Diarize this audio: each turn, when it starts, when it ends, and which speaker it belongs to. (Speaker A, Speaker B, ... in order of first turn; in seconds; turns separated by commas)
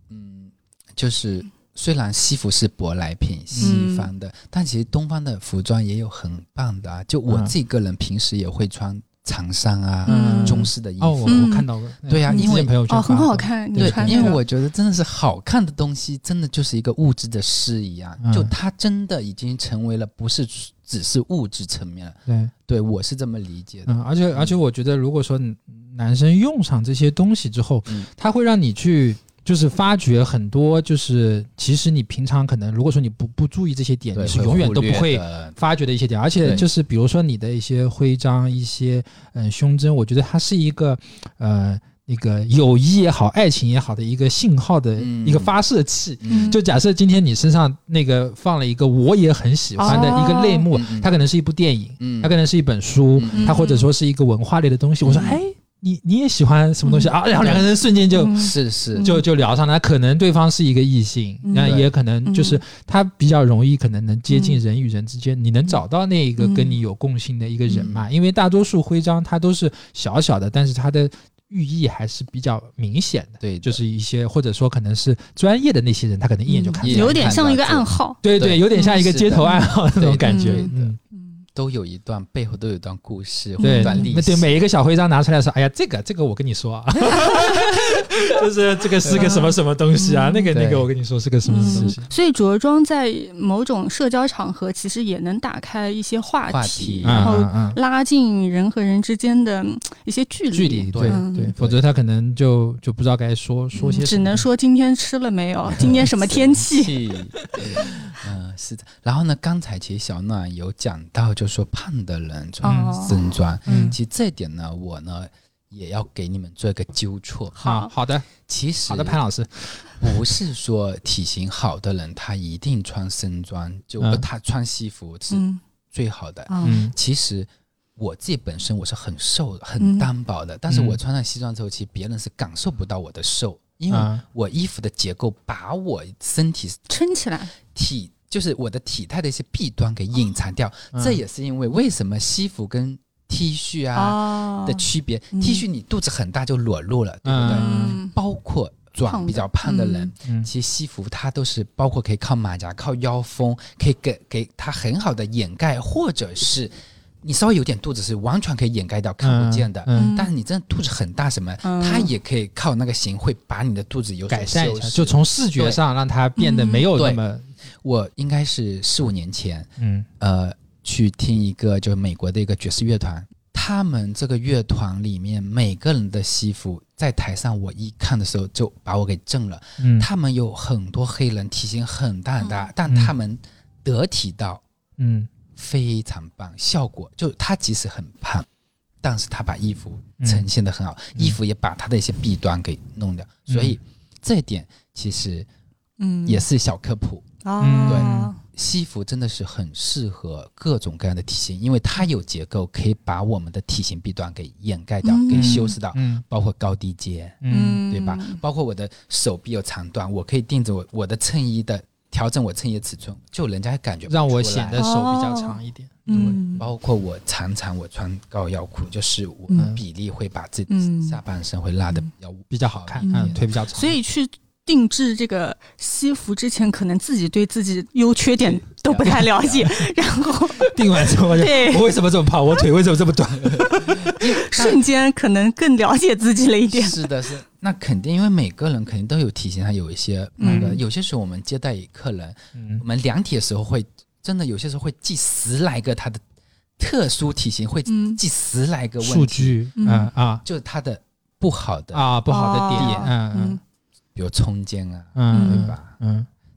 Speaker A: 0.1-11.5, Speaker B: 3.6-4.1, Speaker B: 10.1-10.7, Speaker C: 10.1-14.4, Speaker B: 11.3-11.7, Speaker A: 12.1-12.7, Speaker B: 12.3-14.4, Speaker A: 13.8-24.6, Speaker C: 18.2-18.5, Speaker C: 22.3-22.5, Speaker C: 23.9-58.4, Speaker A: 34.1-35.6, Speaker A: 36.4-36.7, Speaker A: 45.0-45.5, Speaker B: 46.3-46.6, Speaker B: 49.8-50.6, Speaker A: 49.9-50.2, Speaker A: 50.7-51.1, Speaker A: 52.0-52.4, Speaker A: 53.2-53.5, Speaker B: 53.3-53.9, Speaker A: 55.0-55.4, Speaker B: 56.9-57.1, Speaker A: 57.4-57.7, Speaker B: 58.1-59.2, Speaker A: 58.4-59.1, Speaker C: 59.0-77.4, Speaker B: 61.5-62.6, Speaker A: 61.6-61.9, Speaker B: 64.3-64.6, Speaker B: 66.4-66.8, Speaker A: 67.7-68.1, Speaker A: 73.4-73.8, Speaker B: 76.5-78.2, Speaker A: 76.8-80.9, Speaker C: 78.2-81.0, Speaker B: 78.7-79.7, Speaker B: 80.2-81.4, Speaker A: 81.5-84.5, Speaker B: 83.6-84.1, Speaker C: 83.6-92.1, Speaker B: 87.1-87.8, Speaker A: 89.0-89.4, Speaker B: 89.2-90.5, Speaker A: 90.5-90.9, Speaker B: 91.5-101.5, Speaker A: 91.6-92.0, Speaker A: 96.5-97.4, Speaker C: 97.0-97.8, Speaker C: 100.5-104.5, Speaker A: 100.9-101.8, Speaker B: 103.8-107.0, Speaker A: 105.8-117.6, Speaker B: 112.6-114.0, Speaker C: 112.6-113.0, Speaker C: 113.7-114.0, Speaker B: 117.5-117.9, Speaker C: 117.6-120.3, Speaker A: 118.4-119.2, Speaker A: 120.0-136.8, Speaker C: 124.0-124.3, Speaker B: 125.3-125.6, Speaker B: 126.5-126.8, Speaker C: 126.6-126.9, Speaker B: 129.8-130.1, Speaker C: 130.7-131.0, Speaker C: 133.9-134.2, Speaker B: 136.9-137.6, Speaker A: 137.7-165.8, Speaker C: 140.9-141.2, Speaker B: 143.9-145.6, Speaker C: 147.2-148.0, Speaker B: 147.5-148.2, Speaker B: 149.0-150.1, Speaker C: 159.2-160.1, Speaker B: 159.9-160.3, Speaker B: 161.6-162.1, Speaker C: 164.3-167.5, Speaker B: 166.4-166.8, Speaker A: 166.9-167.2, Speaker A: 167.8-169.7, Speaker C: 169.8-170.1, Speaker A: 170.2-184.6, Speaker C: 179.8-180.1, Speaker B: 182.4-182.7, Speaker C: 185.0-185.3, Speaker A: 185.6-188.5, Speaker A: 189.0-195.5, Speaker C: 190.2-190.5, Speaker C: 193.5-193.8, Speaker B: 196.0-196.4, Speaker A: 196.2-197.3, Speaker B: 197.4-198.4, Speaker C: 197.6-198.3, Speaker A: 197.9-214.8, Speaker B: 205.0-205.7, Speaker C: 205.3-206.2, Speaker C: 207.4-207.8, Speaker B: 207.5-208.4, Speaker C: 214.1-216.4, Speaker B: 214.8-216.7, Speaker A: 216.2-223.5, Speaker B: 220.7-221.2, Speaker C: 222.5-224.0, Speaker B: 223.0-231.9, Speaker A: 228.5-229.7, Speaker C: 230.6-234.2, Speaker A: 233.4-234.8, Speaker B: 234.0-237.1, Speaker A: 236.7-246.2, Speaker B: 240.4-240.8, Speaker C: 240.4-240.8, Speaker C: 242.6-242.8, Speaker A: 246.8-249.6, Speaker B: 247.9-248.2, Speaker C: 249.0-250.4, Speaker B: 249.8-250.1, Speaker A: 250.4-252.1, Speaker C: 251.9-253.6, Speaker B: 252.3-253.6, Speaker A: 252.8-253.1, Speaker A: 254.2-255.9, Speaker C: 255.2-256.3, Speaker B: 255.3-255.7